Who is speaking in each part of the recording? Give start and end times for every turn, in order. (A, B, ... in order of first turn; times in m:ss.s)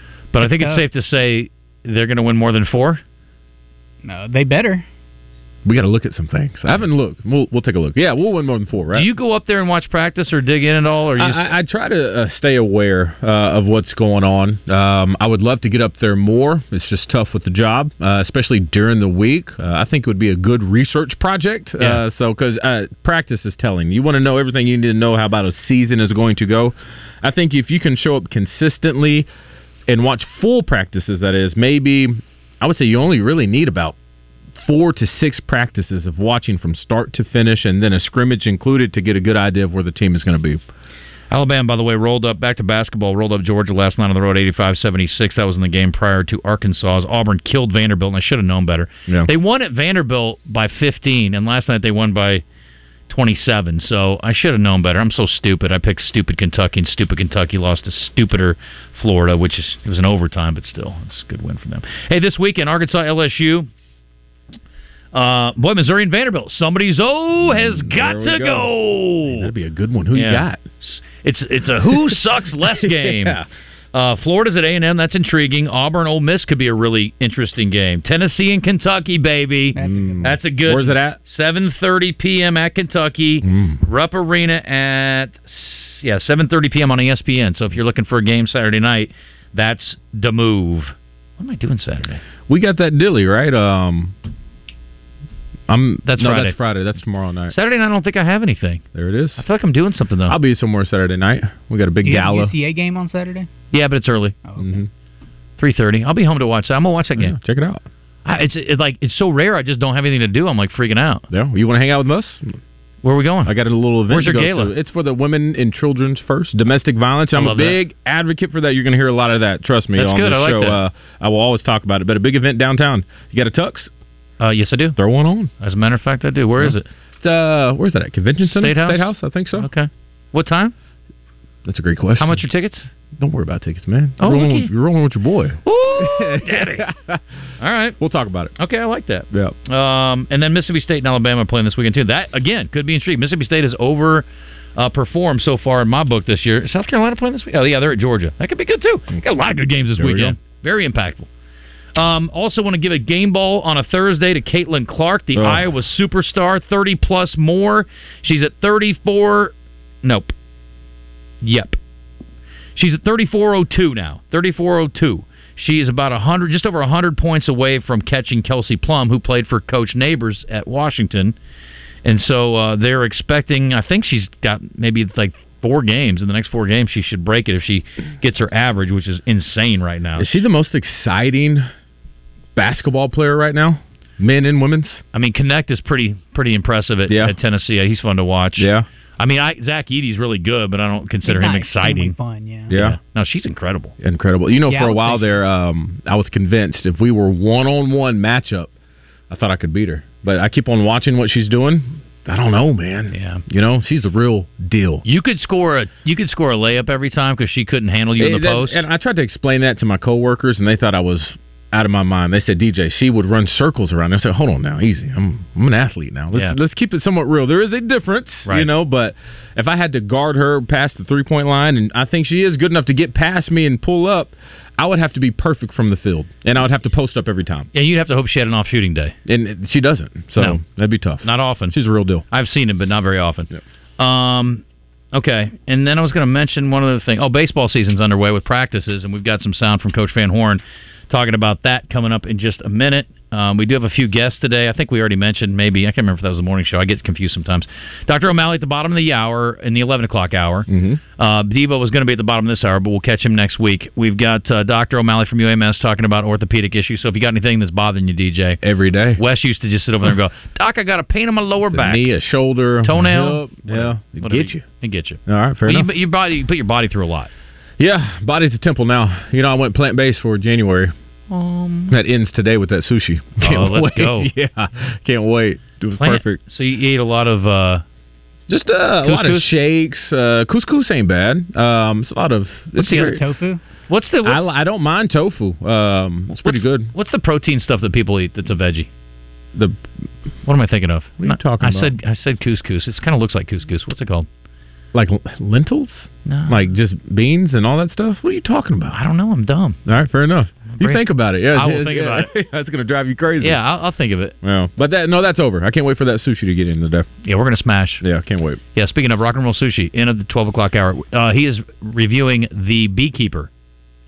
0:00.3-0:03.0 A
0:00.4-0:00.8 B
0:04.0-0:04.8 B
0:05.6-0:09.1 C
0:08.9-0:11.5 A
0:11.2-0:29.3 C
0:29.9-0:34.0 C
0:34.6-0:40.6 C
0:41.3-0:52.4 A
0:53.1-1:03.7 A
1:05.1-1:09.5 A
1:07.4-1:10.6 C
1:10.1-1:13.4 A
1:11.9-1:13.5 C
1:13.9-1:32.2 A
1:19.7-1:20.4 B
1:19.8-1:21.2 C
1:23.4-1:23.8 C
1:32.5-1:34.1 C
1:35.7-1:37.5 C
1:36.0-1:36.6 A
1:37.5-1:38.8 A
1:38.9-1:39.4 C
1:39.4-1:40.4 A
1:40.3-1:42.5 C
1:42.0-1:43.5 B
1:43.7-1:44.4 A
1:44.6-1:44.9 C
1:45.6-1:47.4 A
1:47.2-1:47.8 C
1:48.2-1:51.2 A
1:51.3-1:52.6 C
1:53.0-1:53.5 A
1:53.4-2:03.9 C
1:54.1-1:54.7 A
1:57.3-1:57.8 A
2:00.0-2:00.8 A
2:04.4-2:05.0 A
2:05.0-2:05.5 C
2:05.6-2:06.9 A
2:06.6-2:09.7 C
2:08.4-2:10.7 A
2:11.6-2:12.4 C
2:12.2-2:12.9 A
2:13.1-2:17.2 C
2:14.2-2:14.7 A
2:15.6-2:16.9 A
2:17.6-2:18.0 A
2:18.0-2:18.5 C
2:18.6-2:31.3 A
2:29.9-2:30.4 C
2:31.9-2:40.3 A
2:35.3-2:35.7 C
2:41.4-2:41.8 A
2:42.8-2:51.3 A
2:52.0-3:00.3 A
3:00.2-3:01.7 C
3:02.5-3:05.0 C
3:05.1-3:12.2 A
3:07.1-3:07.3 C
3:08.6-3:08.8 C
3:11.2-3:12.7 B
3:12.7-3:13.0 C
3:12.7-3:13.9 A
3:14.0-3:18.7 C
3:14.7-3:15.4 B
3:19.3-3:25.0 C
3:23.1-3:23.4 A
3:25.0-3:28.8 A
3:28.2-3:47.7 C
3:47.7-3:49.1 A
3:49.2-3:52.2 C
3:51.2-3:51.7 A
3:52.3-4:18.6 A
4:10.7-4:11.0 C
4:18.6-4:19.2 C
4:19.2-4:22.1 A
4:21.7-4:24.6 C
4:22.8-4:27.3 A
4:25.3-4:25.9 C
4:27.8-4:30.9 C
4:31.3-4:32.0 A
4:31.9-4:36.4 C
4:33.4-4:34.3 A
4:36.0-4:37.8 A
4:38.5-4:43.2 C
4:39.0-4:39.5 A
4:42.8-4:43.6 B
4:43.9-4:44.5 A
4:44.2-4:46.9 C
4:46.3-4:48.9 A
4:49.5-4:49.8 C
4:50.4-4:54.3 A
4:51.2-4:51.9 C
4:54.9-4:59.0 C
4:56.2-4:56.7 A
4:58.9-4:59.8 A
4:59.8-5:03.6 C
5:00.7-5:02.3 A
5:03.4-5:04.4 A
5:04.4-5:07.1 C
5:07.2-5:08.0 A
5:08.0-5:08.6 C
5:08.7-5:13.5 A